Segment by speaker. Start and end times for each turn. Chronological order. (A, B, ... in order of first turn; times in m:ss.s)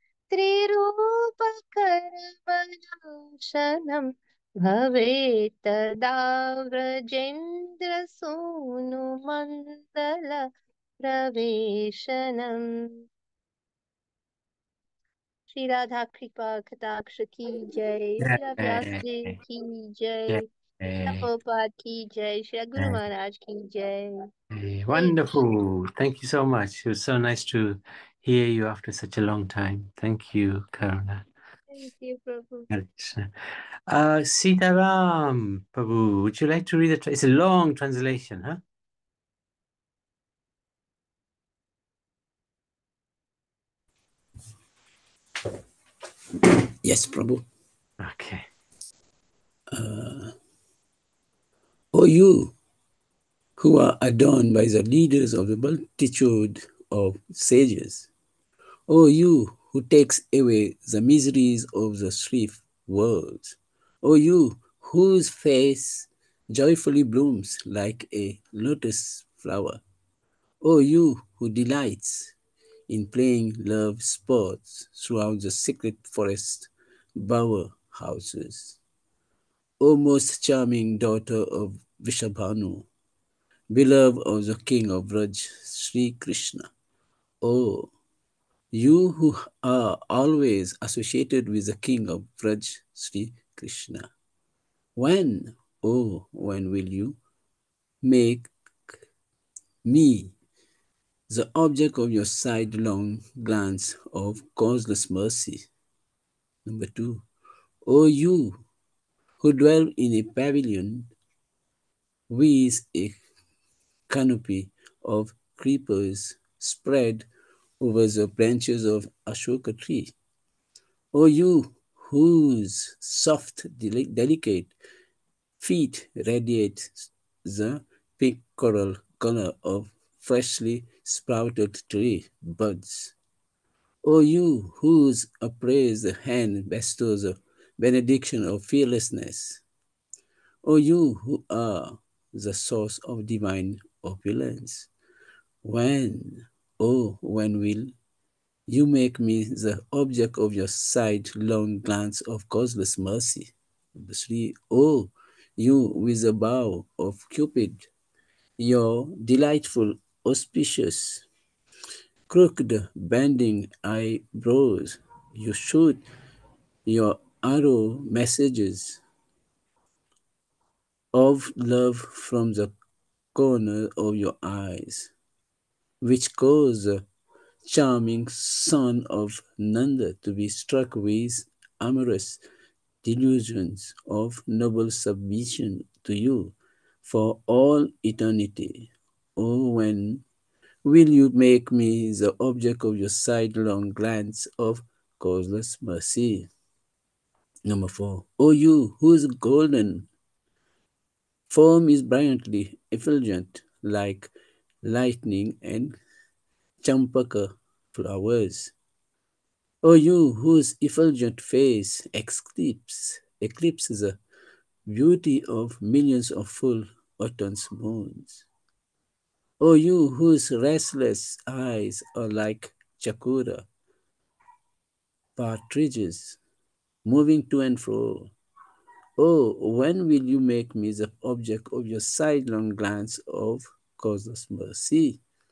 0:00.3-0:04.1 A
0:04.6-0:10.5 A
0:11.0-0:13.0 A
0:15.5-0:20.5 A
0:18.2-0:19.4 B
0:20.3-0:21.3 B
0:21.0-0:24.1 A
0:22.8-0:23.0 B
0:24.5-0:31.2 B
0:24.9-0:25.4 A
0:31.7-0:32.7 A
0:32.7-0:33.3 B
0:33.9-0:38.6 B
0:46.8-0:47.4 C
0:48.0-0:48.5 B
0:49.7-0:50.4 C
0:51.9-0:52.6 C
0:53.6-0:58.1 C
0:58.9-1:09.8 C
1:10.6-1:12.4 C
1:12.9-1:18.8 C
1:19.8-1:22.9 C
1:23.7-1:26.7 C
1:27.4-1:27.9 C
1:28.7-1:34.1 C
1:35.0-1:37.2 C
1:38.0-1:38.5 C
1:39.8-1:40.4 C
1:41.3-1:45.7 C
1:46.6-1:47.3 C
1:47.9-1:48.6 C
1:49.4-1:51.1 C
1:52.3-1:53.2 C
1:54.1-1:57.3 C
1:57.8-2:00.1 C
2:01.1-2:04.7 C
2:05.6-2:13.2 C
2:14.0-2:19.6 C
2:20.6-2:24.9 C
2:25.6-2:27.9 C
2:28.7-2:37.9 C
2:38.6-2:41.3 C
2:42.3-2:46.0 C
2:46.9-2:49.0 C
2:51.1-2:52.7 C
2:53.4-2:55.1 C
2:56.0-2:57.0 C
2:57.6-3:02.4 C
3:03.0-3:10.2 C
3:10.8-3:16.5 C
3:17.7-3:20.1 C
3:21.5-3:24.3 C
3:24.8-3:26.0 C
3:26.8-3:28.7 C
3:29.8-3:34.2 C
3:34.9-3:38.5 C
3:39.6-3:43.7 C
3:45.4-3:46.4 C
3:47.0-3:48.3 C
3:49.2-3:55.2 C